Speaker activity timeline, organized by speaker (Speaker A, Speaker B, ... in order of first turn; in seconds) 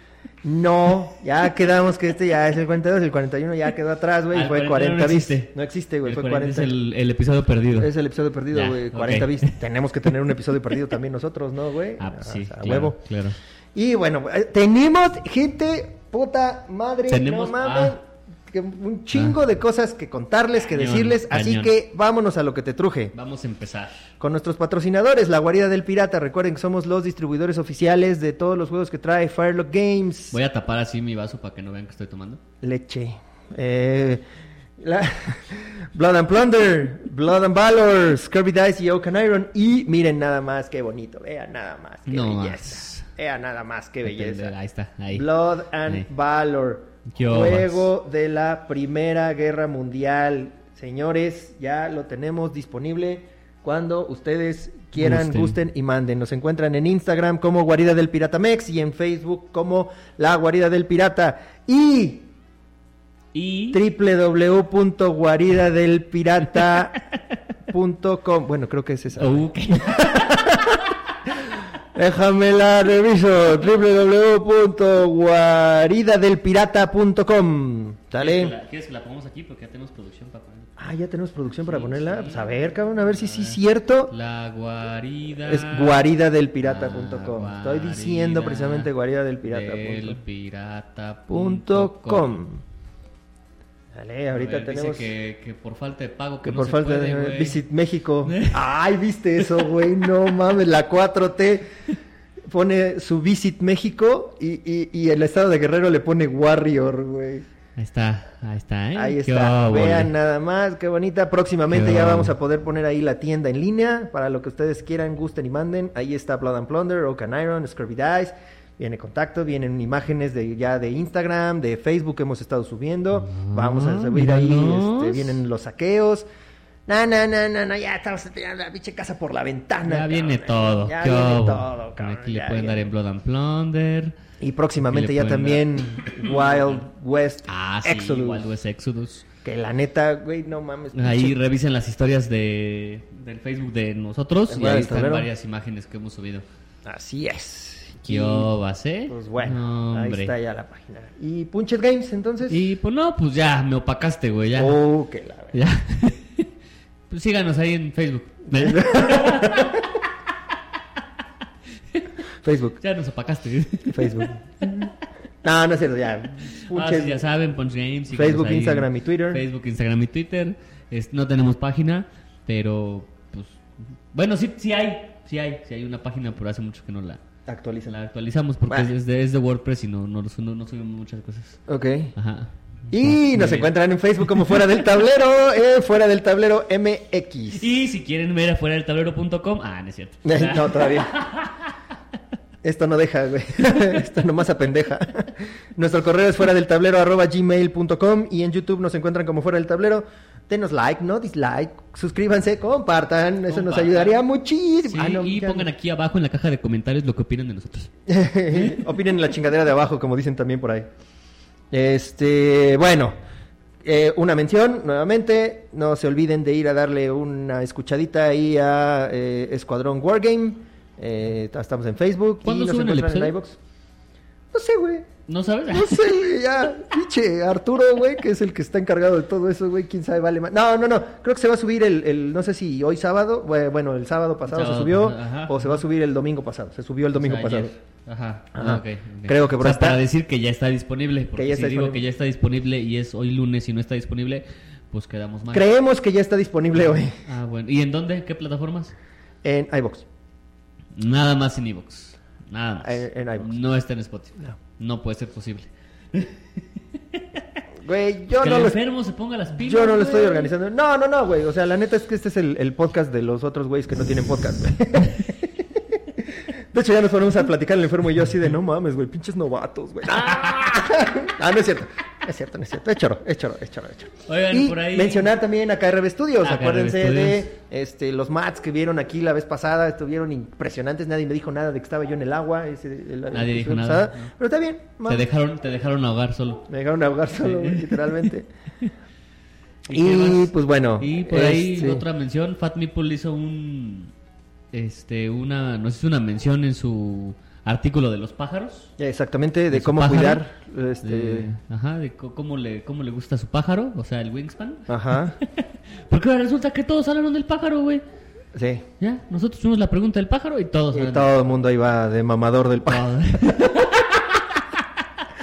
Speaker A: 0.4-6.7, 7.8-13.0, 13.7-23.1, 24.2-30.4, 32.6-34.2, 34.8-44.5, 45.1-62.3, 63.7-67.0, 67.7-70.8, 71.9-78.5, 80.8-84.1, 85.4-90.2, 91.3-92.6, 93.9-95.1, 96.4-101.7, 102.5-107.5, 109.0-126.2, 126.9-132.8, 134.4-138.4, 139.4-141.4, 144.5-145.3, 146.8-148.5, 149.1-152.6, 154.6-155.6, 158.5-159.9, 162.4-162.8, 163.9-164.4, 165.4-167.2, 168.1-169.4, 177.5-177.9, 181.7-182.1, 182.9-187.7, 190.2-191.2, 192.6-205.7, 208.1-210.9, 211.7-213.1, 213.8-223.6, 224.5-225.1, 225.7-237.7, 238.5-240.0, 241.3-242.0, 245.5-247.1, 249.4-250.1, 252.8-253.6, 257.8-258.8, 259.5-265.8, 266.4-285.2, 286.7-288.5, 289.9-292.0, 299.0-301.5, 304.9-305.4, 308.5-308.8, 310.9-313.8
Speaker B: 4.3-7.9, 8.5-9.6, 12.0-13.4, 17.1-18.0, 20.7-21.7, 23.1-24.1, 30.3-32.4, 42.1-43.1, 44.0-45.3, 47.1-47.9, 55.0-55.6, 63.3-63.8, 69.2-70.8, 78.2-80.7, 81.6-86.1, 86.6-88.9, 89.4-92.3, 94.3-97.6, 98.2-98.6, 107.8-110.1, 111.7-112.3, 123.2-125.4, 129.8-134.2, 134.8-136.8, 137.5-139.3, 140.9-146.4, 148.0-150.3, 152.5-154.8, 155.5-156.5, 157.1-159.8, 162.8-164.8, 166.7-177.2, 177.9-181.6, 182.1-184.6, 187.5-191.6, 203.5-204.2, 204.8-207.9, 208.5-208.8, 222.4-223.4, 225.3-226.1, 234.5-235.8, 237.2-245.7, 246.9-248.9, 250.9-257.4, 258.4-260.5, 270.2-270.6, 274.2-275.3, 276.4-277.5, 283.3-284.3, 285.1-286.6, 287.4-288.1, 289.9-294.1, 294.7-298.9, 299.7-300.4, 301.0-308.0, 309.0-311.3, 312.9-314.6